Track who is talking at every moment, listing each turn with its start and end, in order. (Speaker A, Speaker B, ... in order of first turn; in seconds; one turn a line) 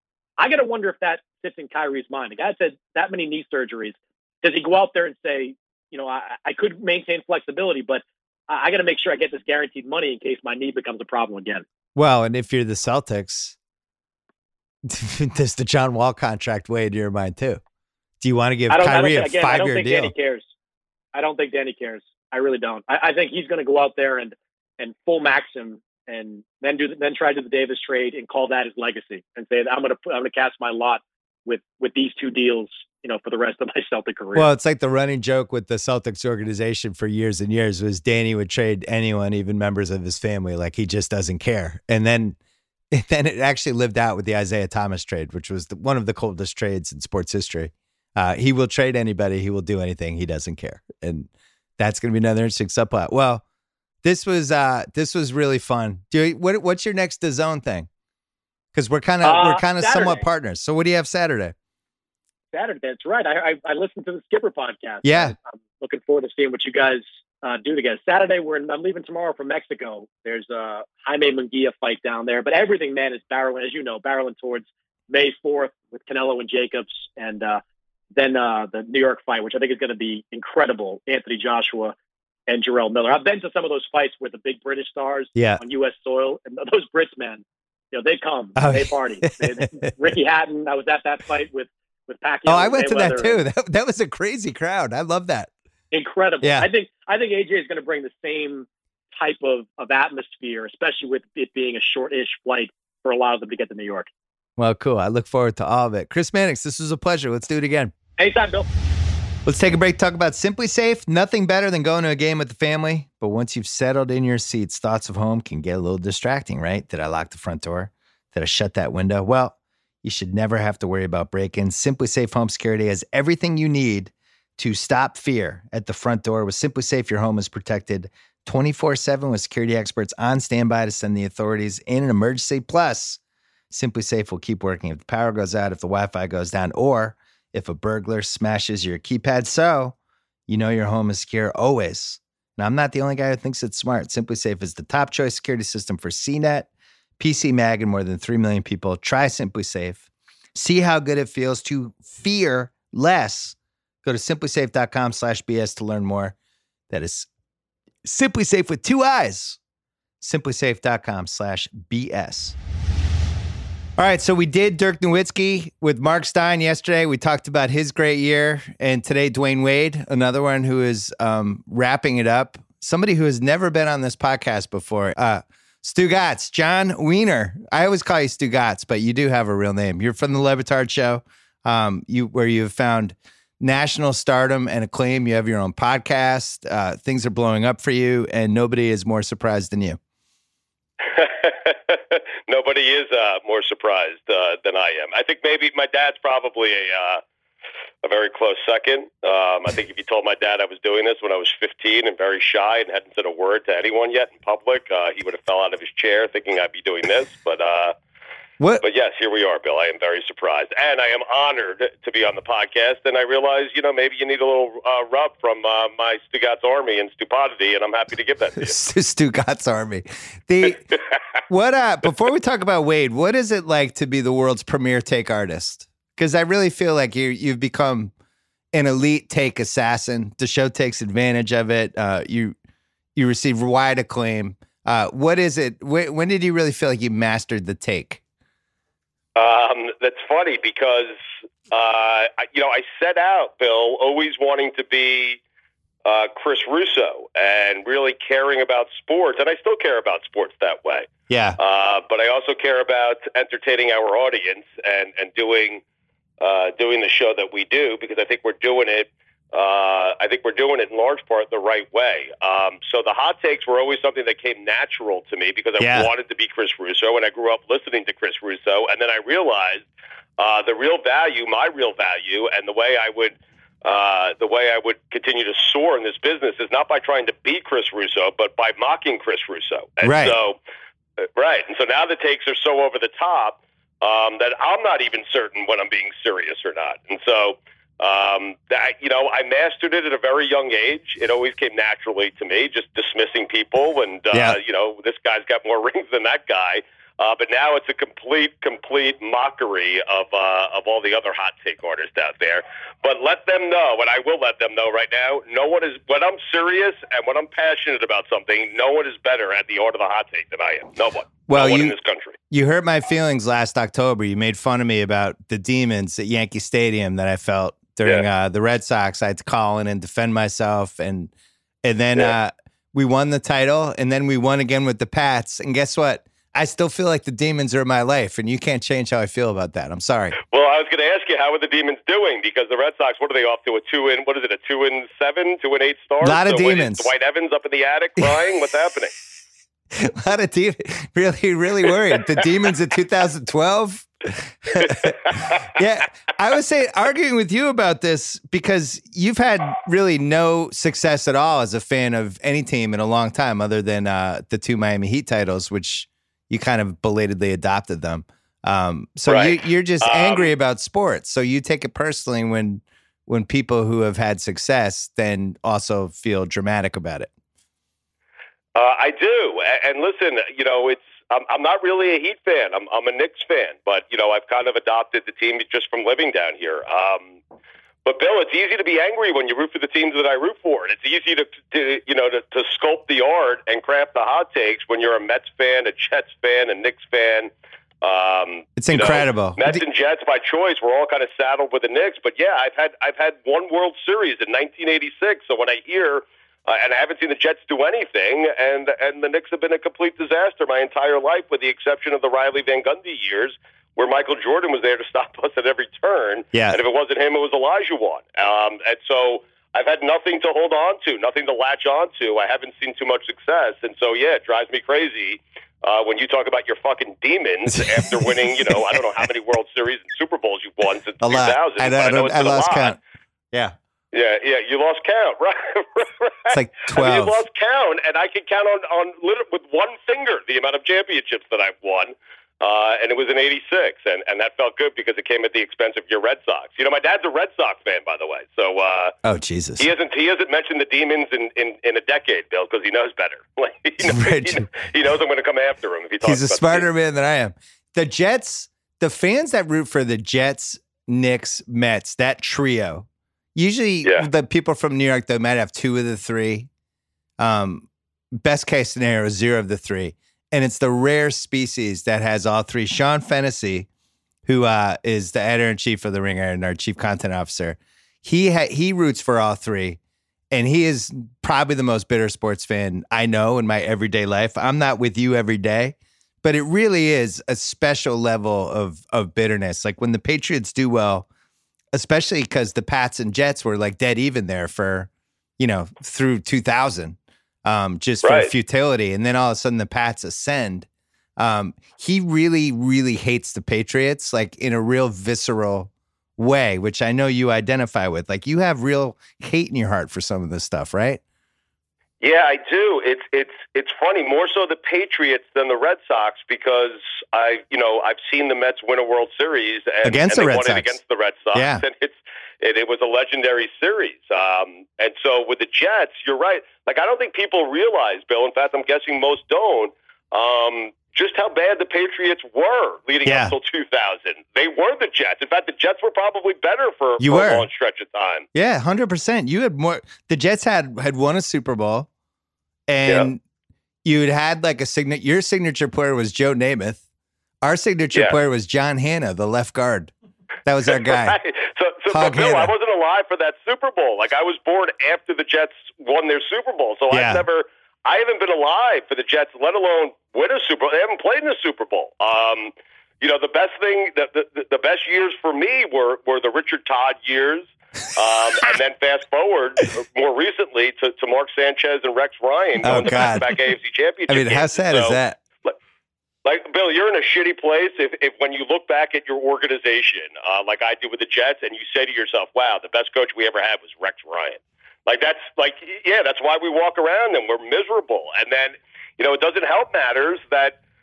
Speaker A: 0.4-11.6
Speaker B: 11.9-13.6
Speaker B: 14.8-17.6
Speaker B: 18.2-20.1
Speaker A: 18.7-20.5
Speaker A: 21.1-34.5
Speaker B: 34.3-42.4
Speaker B: 42.9-53.4
Speaker B: 54.0-57.9
Speaker B: 58.7-61.5
Speaker A: 59.2-60.2
Speaker A: 62.5-77.6
Speaker B: 65.0-65.3
Speaker A: 78.1-81.9
Speaker A: 82.5-93.4
Speaker B: 85.3-85.6
Speaker B: 88.5-90.1
Speaker B: 92.5-95.5
Speaker A: 95.9-104.1
Speaker B: 96.4-96.7
Speaker B: 104.6-107.9
Speaker A: 108.2-108.7
Speaker B: 109.5-133.2
Speaker B: 133.7-139.9
Speaker B: 140.5-156.3
Speaker B: 156.9-157.3
Speaker B: 158.0-159.6
Speaker B: 160.2-162.6
Speaker B: 164.0-190.0
Speaker C: 191.1-197.2
Speaker C: 198.0-207.9
Speaker C: 208.8-218.7
Speaker B: 218.6-220.8
Speaker B: 221.5-228.1
Speaker B: 228.7-232.5
Speaker B: 233.2-238.2
Speaker C: 239.3-241.2
Speaker C: 241.7-245.4
Speaker C: 246.0-255.8
Speaker B: 251.3-251.6
Speaker C: 256.4-269.9
Speaker B: 265.8-266.1
Speaker C: 270.4-280.6
Speaker B: 280.0-280.4
Speaker C: 281.2-312.4
Speaker B: 294.3-294.6
Speaker B: 311.5-311.9
Speaker B: 312.5-321.3
Speaker B: 321.8-330.4
Speaker C: 330.5-339.1
Speaker B: 336.2-337.1
Speaker B: 339.9-367.3
Speaker C: 344.7-345.6
Speaker C: 359.3-360.5
Speaker C: 368.7-377.3
Speaker C: 378.0-422.9
Speaker B: 388.8-389.8
Speaker B: 406.5-406.8
Speaker B: 417.7-419.2
Speaker B: 421.2-423.0
Speaker C: 424.1-439.1
Speaker B: 426.5-427.4
Speaker B: 439.2-439.9
Speaker C: 439.8-446.9
Speaker B: 444.0-444.7
Speaker B: 446.2-456.7
Speaker B: 457.4-463.9
Speaker B: 464.4-470.0
Speaker B: 470.5-481.3
Speaker B: 481.9-490.9
Speaker C: 488.2-488.5
Speaker B: 491.4-501.2
Speaker C: 502.2-528.5
Speaker B: 510.0-510.9
Speaker B: 511.5-511.8
Speaker B: 523.2-523.5
Speaker B: 527.2-527.6
Speaker B: 528.5-532.1
Speaker B: 532.9-533.4
Speaker B: 534.0-537.0
Speaker B: 537.6-540.1
Speaker B: 540.6-541.4
Speaker C: 540.9-565.8
Speaker B: 542.1-542.7
Speaker B: 547.1-547.4
Speaker B: 562.8-563.5
Speaker B: 564.3-565.4
Speaker C: 566.4-580.8